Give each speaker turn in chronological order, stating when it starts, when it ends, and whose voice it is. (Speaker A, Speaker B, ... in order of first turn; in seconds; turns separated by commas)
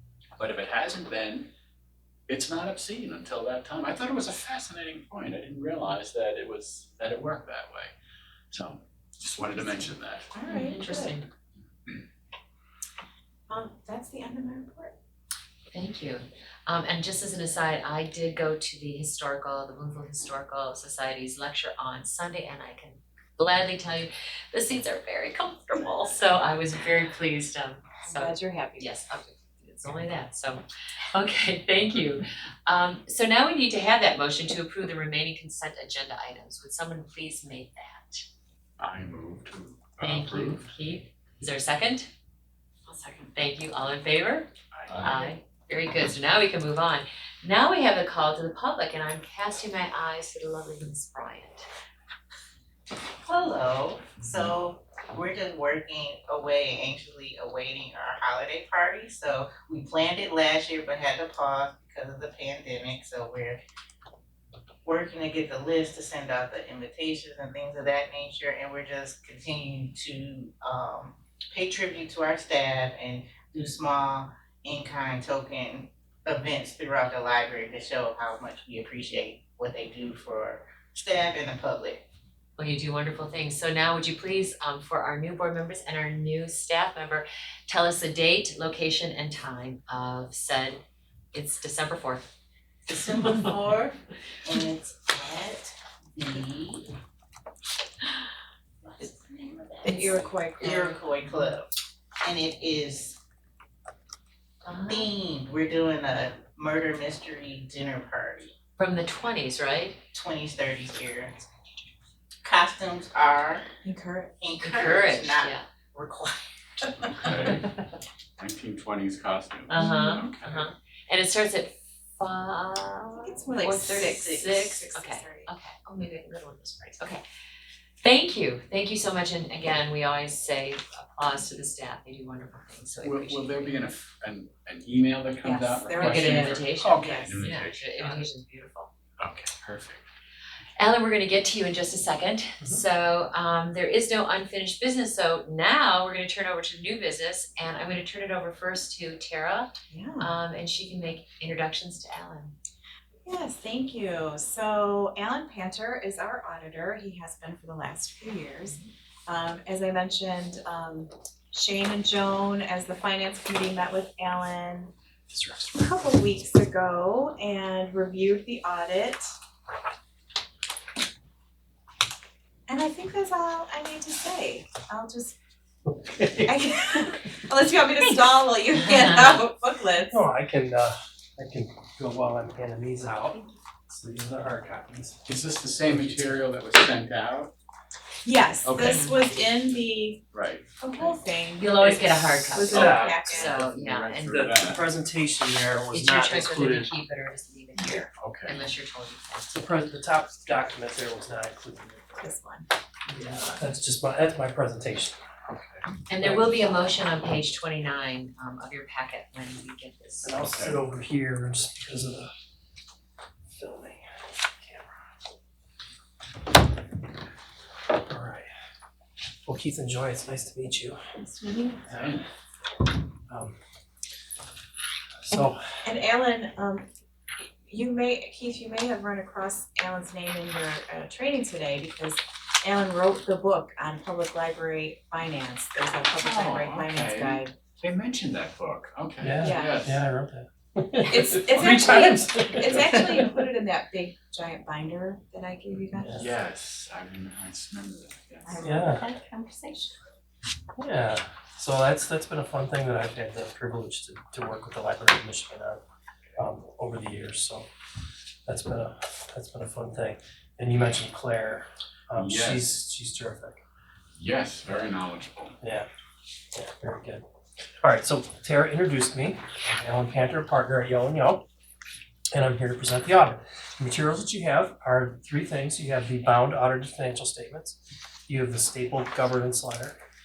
Speaker A: 0.4-1.5, Speaker A: 2.3-7.9, Speaker A: 8.5-10.3, Speaker B: 10.3-11.2, Speaker C: 10.4-11.3, Speaker B: 13.5-14.9, Speaker C: 15.7-38.2, Speaker B: 28.0-28.9, Speaker A: 38.8-40.7, Speaker C: 40.0-42.1, Speaker C: 42.9-44.5, Speaker A: 44.7-45.2, Speaker C: 45.0-51.7, Speaker D: 53.2-63.6, Speaker D: 64.8-82.0, Speaker C: 82.6-90.8, Speaker C: 91.3-92.3, Speaker D: 92.9-97.0, Speaker D: 98.8-101.7, Speaker B: 99.8-101.0, Speaker D: 102.2-103.2, Speaker C: 104.6-105.1, Speaker D: 104.8-108.5, Speaker C: 108.8-110.0, Speaker D: 110.1-111.4, Speaker D: 112.4-113.7, Speaker B: 113.8-114.4, Speaker D: 114.4-117.5, Speaker C: 114.6-115.6, Speaker A: 117.0-117.7, Speaker A: 118.4-120.7, Speaker C: 119.7-127.2, Speaker B: 119.8-120.2, Speaker B: 123.2-125.5, Speaker D: 123.9-124.5, Speaker C: 128.0-133.8, Speaker A: 133.0-138.1, Speaker B: 135.4-138.2, Speaker C: 136.0-138.9, Speaker A: 139.2-140.1, Speaker C: 140.8-152.5, Speaker B: 149.9-150.3, Speaker B: 153.2-164.9, Speaker B: 165.7-169.4, Speaker B: 172.7-175.4, Speaker E: 175.8-177.1, Speaker B: 176.4-180.2, Speaker C: 178.7-179.4, Speaker E: 180.1-185.2, Speaker A: 185.2-187.5, Speaker E: 185.9-186.3, Speaker B: 188.2-190.2, Speaker A: 188.6-189.2, Speaker C: 188.8-189.1, Speaker A: 190.3-191.1, Speaker B: 190.8-192.0, Speaker C: 191.6-194.6, Speaker E: 191.8-193.3, Speaker B: 192.5-193.6, Speaker A: 192.7-194.8, Speaker E: 194.2-196.9, Speaker C: 195.9-199.7, Speaker A: 198.2-198.6, Speaker E: 199.5-202.1, Speaker B: 202.2-202.7, Speaker C: 203.1-203.5, Speaker E: 203.1-205.2, Speaker A: 205.5-205.9, Speaker C: 206.1-210.4, Speaker E: 206.2-207.2, Speaker E: 210.2-212.3, Speaker A: 210.4-210.8, Speaker E: 213.6-214.0, Speaker E: 214.6-214.8, Speaker E: 217.9-218.5, Speaker E: 219.4-221.0, Speaker B: 221.2-221.8, Speaker A: 221.8-222.3, Speaker E: 221.9-222.2, Speaker E: 223.3-223.6, Speaker E: 225.2-225.6, Speaker B: 225.8-226.9, Speaker B: 227.4-237.5, Speaker A: 236.1-240.0, Speaker E: 239.2-243.4, Speaker B: 239.4-239.8, Speaker B: 241.0-246.2, Speaker E: 245.9-246.2, Speaker A: 246.1-248.6, Speaker B: 248.4-249.9, Speaker E: 248.6-249.1, Speaker D: 248.9-249.1, Speaker E: 250.8-255.8, Speaker E: 256.4-257.7, Speaker E: 258.4-263.6, Speaker A: 262.1-262.8, Speaker A: 264.1-265.6, Speaker E: 265.6-265.9, Speaker E: 266.5-267.2, Speaker E: 267.8-271.4, Speaker E: 272.3-280.0